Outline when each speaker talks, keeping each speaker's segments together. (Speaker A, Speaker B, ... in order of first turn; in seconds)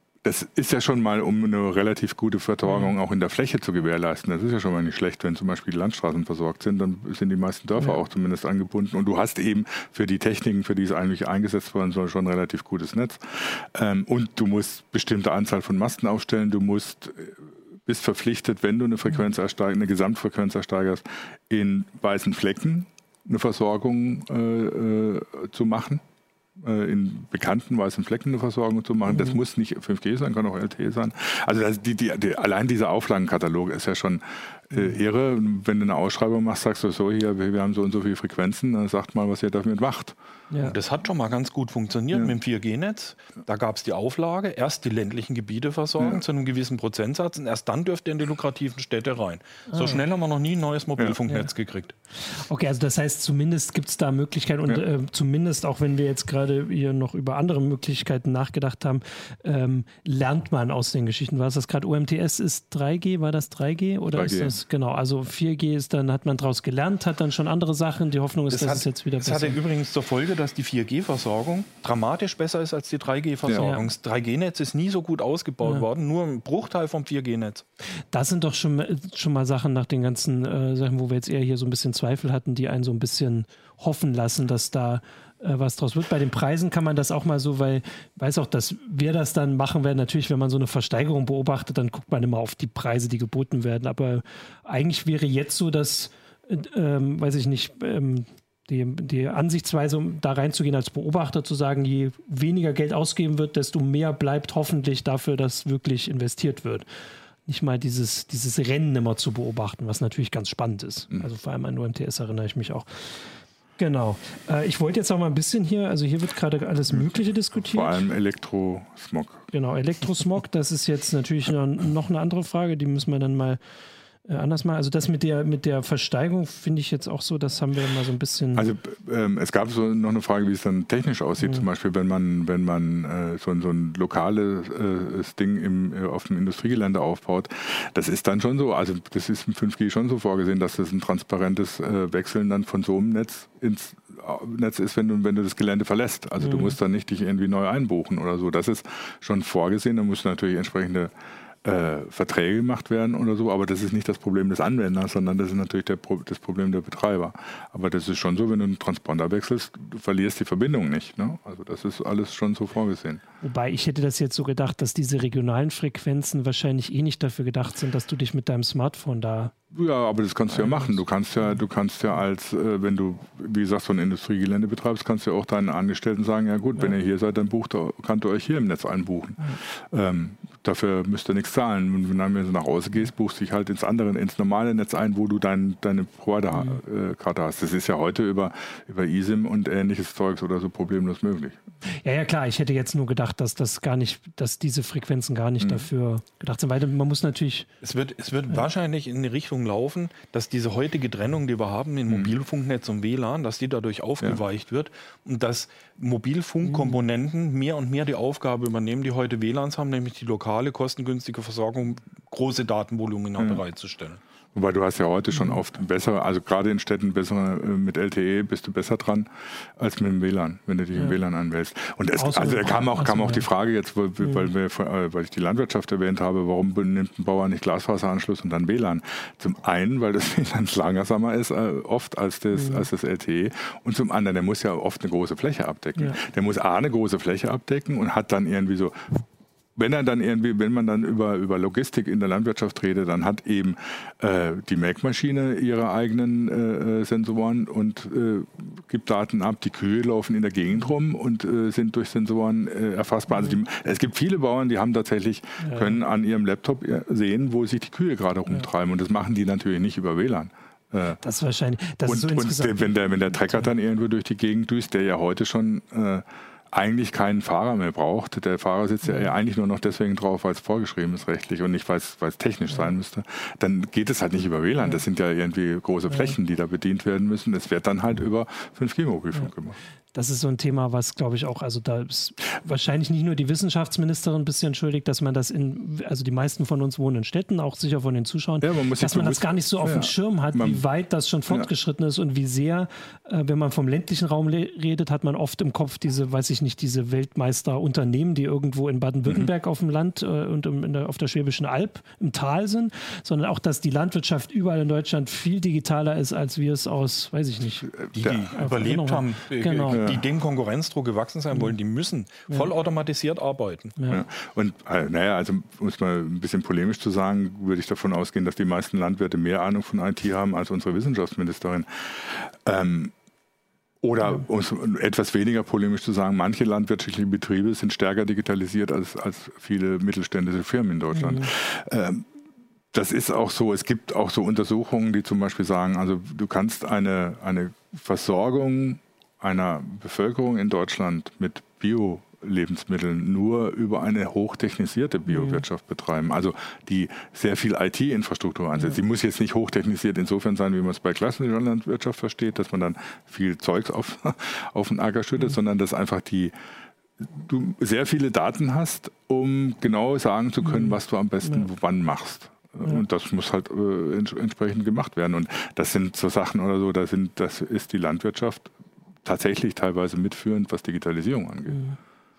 Speaker A: 0.2-26.0, 26.6-40.1, 64.1-64.5, 117.5-119.5, 128.5-151.1, 151.6-163.2, 169.7-191.6, 195.6-195.8, 202.1-202.3, 214.5-239.2, 239.8-261.2, 262.1-279.8, 288.6-290.8, 307.9-308.6, 309.9-310.2, 314.1-323.1, 324.0-332.3, 332.9-356.5, 357.2-368.7, 369.2-371.8
Speaker B: 2.6-2.9, 29.1-29.4, 40.5-40.8, 49.7-50.0, 52.2-69.6, 73.6-73.9, 78.1-106.8, 107.5-112.9, 113.8-118.0, 119.5-123.6, 124.2-128.7, 146.4-146.8, 163.4-169.5, 170.5-171.0, 192.0-197.7, 206.7-207.0, 215.3-215.6, 222.2-223.4, 232.5-232.8, 255.6-256.0, 261.2-262.9, 269.0-269.3, 280.1-307.9, 308.5-310.0, 314.0-314.2, 331.1-331.5, 345.3-345.6, 360.6-361.7, 371.7-372.0
Speaker C: 40.6-52.0, 68.5-77.6, 197.8-214.2, 308.1-313.9